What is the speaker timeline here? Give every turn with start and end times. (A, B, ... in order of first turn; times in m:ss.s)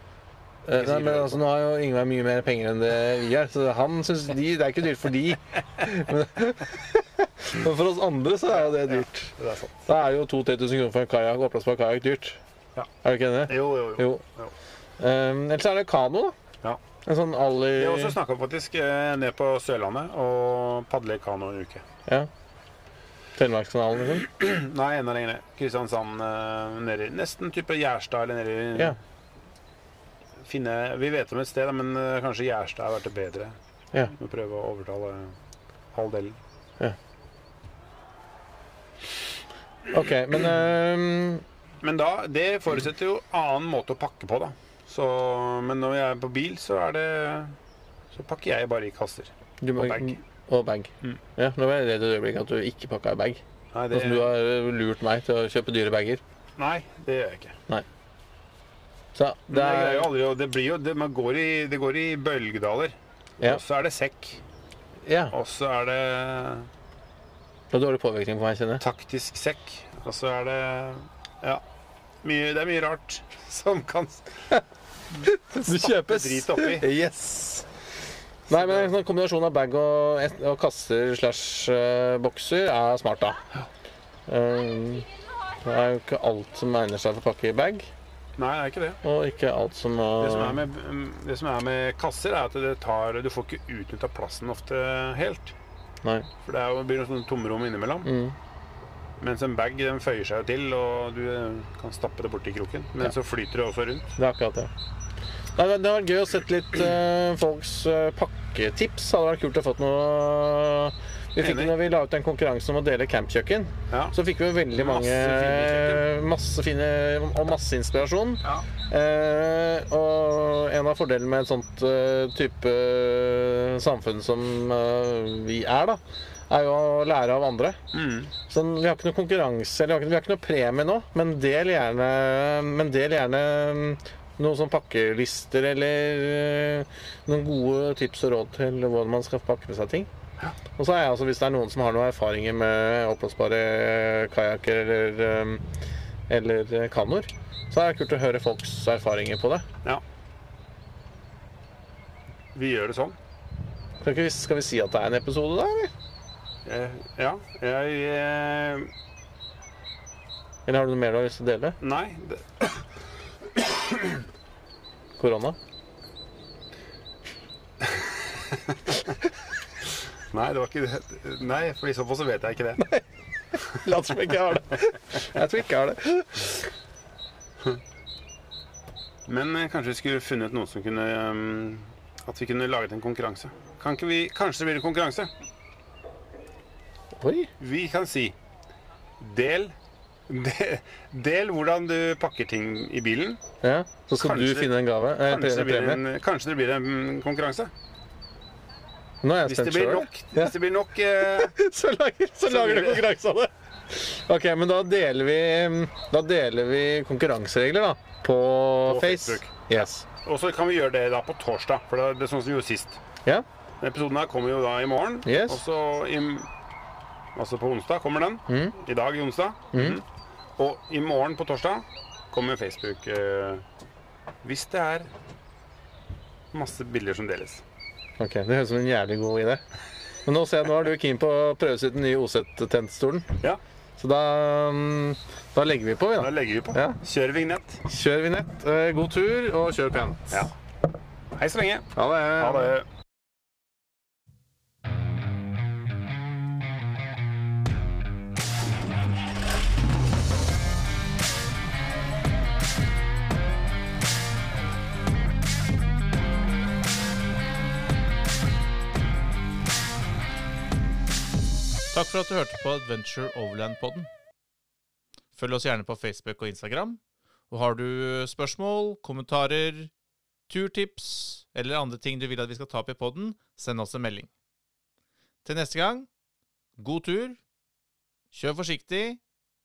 0:00.7-0:09.3 A
0:00.8-0:01.4 B
0:08.5-0:09.8 B
0:09.9-0:12.4 A
0:13.0-0:14.2 A
0:13.5-0:14.5 B
0:15.0-0:16.4 A
0:17.0-0:18.2 A
0:17.8-0:21.8 B
0:23.4-0:24.3 A
0:24.3-0:29.0 B
0:30.5-0:33.6 B
0:34.1-0:35.4 B
0:35.9-0:36.4 B
0:39.9-0:41.4 A
0:41.8-0:47.6 B
0:48.1-0:50.2 B
0:49.6-0:56.2 A
0:53.7-0:54.3 B
0:56.6-0:57.6 B
0:59.2-1:00.1 A
0:59.5-1:04.4 B
1:05.0-1:05.3 A
1:05.3-1:06.7 B
1:07.7-1:08.8 A
1:08.8-1:11.6 B
1:12.2-1:14.5 B
1:15.1-1:16.9 B
1:15.2-1:17.7 A
1:18.5-1:23.4 A
1:18.5-1:18.9 B
1:24.3-1:25.1 A
1:25.6-1:27.9 A
1:28.4-1:29.0 B
1:29.0-1:30.6 A
1:30.2-1:35.6 B
1:36.0-1:36.3 A
1:36.4-1:38.1 B
1:38.0-1:38.4 A
1:39.2-1:44.1 B
1:44.2-1:44.7 A
1:45.6-2:07.8 A
1:51.4-1:51.7 B
1:53.9-1:54.2 B
1:54.7-1:56.1 B
2:07.9-2:08.3 B
2:08.5-2:20.1 A
2:20.8-2:25.6 A
2:26.3-2:29.7 A
2:32.5-2:33.2 B
2:34.0-2:35.9 A
2:36.6-2:38.9 B
2:40.7-2:41.8 A
2:41.8-2:42.8 B
2:43.6-2:44.2 B
2:45.2-2:45.6 A
2:48.5-2:48.9 B
2:50.3-2:52.9 B
2:53.6-2:56.7 A
2:59.3-3:05.3 B
3:07.2-3:07.5 A
3:07.6-3:08.4 B
3:09.2-3:09.8 B
3:10.3-3:13.4 B
3:13.6-3:16.0 A
3:14.2-3:17.7 B
3:19.2-3:20.5 A
3:19.5-3:21.5 B
3:21.2-3:30.1 A
3:22.5-3:23.0 B
3:28.9-3:29.5 B
3:30.2-3:33.0 B
3:33.8-3:36.5 B
3:35.2-3:35.6 A
3:37.4-3:40.0 B
3:38.5-3:38.8 A
3:39.7-3:40.0 A
3:40.6-3:43.6 B
3:44.4-3:45.1 B
3:46.5-3:47.6 B
3:48.2-3:49.6 A
3:50.3-3:53.4 A
3:54.0-3:57.0 A
3:56.2-3:57.8 B
3:57.9-4:00.5 A
4:01.4-4:02.8 B
4:02.0-4:02.7 A
4:21.9-4:24.1 C
4:25.4-4:29.9 C
4:30.5-4:34.3 C
4:35.4-4:36.1 C
4:36.8-4:37.4 C
4:38.3-4:39.2 C